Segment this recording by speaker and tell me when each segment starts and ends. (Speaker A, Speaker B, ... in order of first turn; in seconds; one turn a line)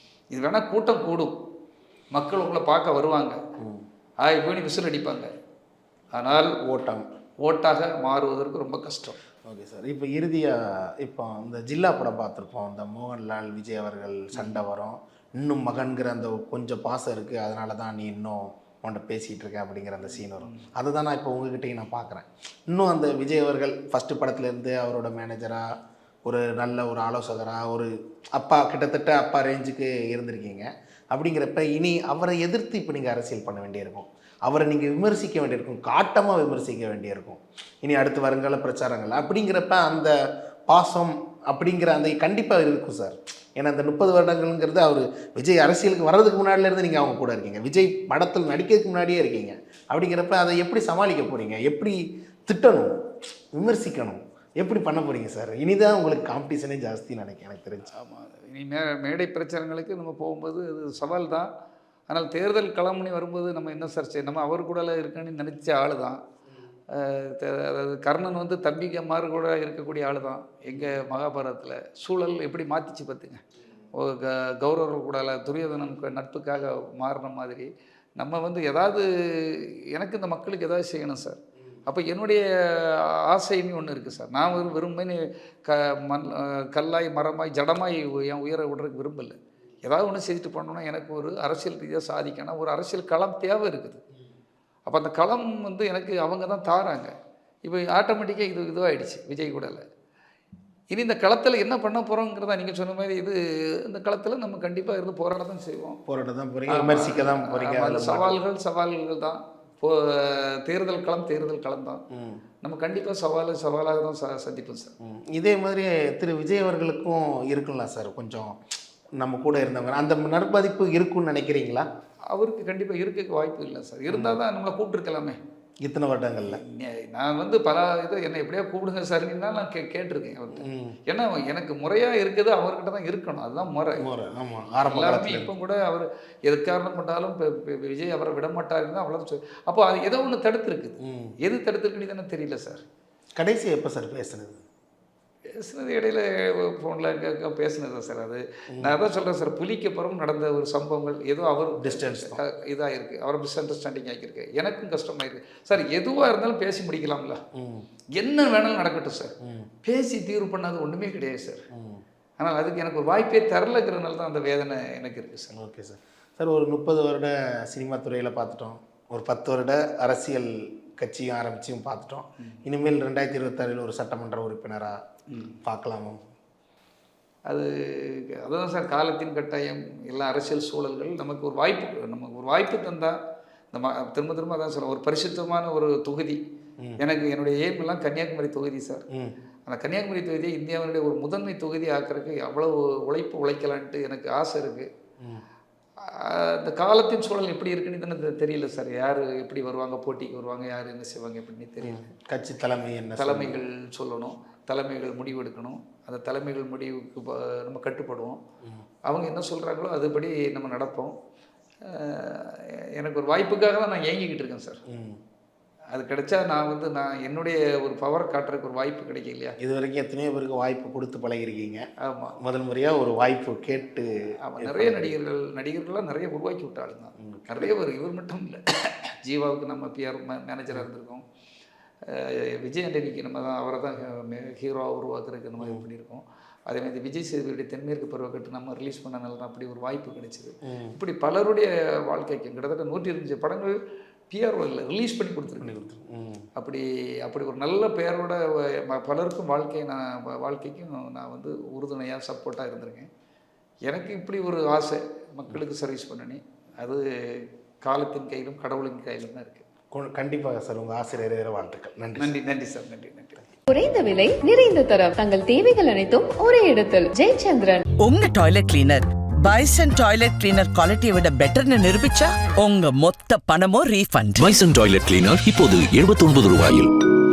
Speaker A: 0.3-1.3
Speaker A: 2.1-3.4
Speaker B: 3.6-3.8
Speaker A: 4.2-5.3
Speaker A: 6.1-6.5
Speaker B: 6.6-7.1
Speaker A: 7.4-9.2
Speaker B: 9.4-25.6
Speaker A: 14.3-14.6
Speaker A: 20.0-20.7
Speaker B: 26.2-40.1
Speaker B: 40.7-52.9
Speaker B: 53.5-57.9
Speaker A: 57.9-61.5
Speaker A: 62.1-66.2
Speaker A: 66.9-73.4
Speaker A: 73.9-94.0
Speaker A: 94.9-97.1
Speaker A: 97.6-99.8
Speaker A: 100.9-106.0
Speaker B: 106.1-108.4
Speaker A: 106.7-112.0
Speaker B: 112.1-112.4
Speaker A: 112.6-114.9
Speaker B: 115.0-118.5
Speaker B: 119.2-121.9
Speaker A: 122.3-125.4
Speaker B: 124.1-124.4
Speaker B: 125.8-126.6
Speaker A: 126.5-134.0
Speaker B: 130.6-131.0
Speaker B: 134.0-135.5
Speaker A: 134.8-142.8
Speaker B: 141.0-141.3
Speaker B: 143.4-144.6
Speaker A: 145.6-157.4
Speaker B: 151.8-152.4
Speaker B: 157.5-157.8
Speaker A: 158.2-161.6
Speaker B: 159.4-159.7
Speaker B: 161.7-162.0
Speaker A: 162.4-165.5
Speaker B: 165.5-175.0
Speaker A: 175.3-175.5
Speaker B: 175.6-176.2
Speaker A: 177.5-183.2
Speaker A: 183.7-186.4
Speaker A: 187.0-189.0
Speaker A: 189.7-194.9
Speaker A: 196.1-202.0
Speaker B: 201.8-203.6
Speaker A: 203.2-208.4
Speaker A: 209.1-211.1
Speaker A: 211.9-214.8
Speaker B: 214.9-215.2
Speaker A: 215.9-219.5
Speaker B: 219.6-221.8
Speaker A: 222.0-222.4
Speaker B: 222.4-225.1
Speaker A: 224.4-228.6
Speaker B: 227.2-227.7
Speaker A: 229.2-231.2
Speaker A: 232.1-243.8
Speaker B: 240.7-240.9
Speaker A: 244.3-245.7
Speaker B: 245.6-246.5
Speaker A: 246.6-253.1
Speaker A: 253.9-259.6
Speaker B: 259.9-262.3
Speaker A: 262.2-263.4
Speaker C: 263.7-267.8
Speaker D: 268.0-274.5
Speaker E: 274.4-276.9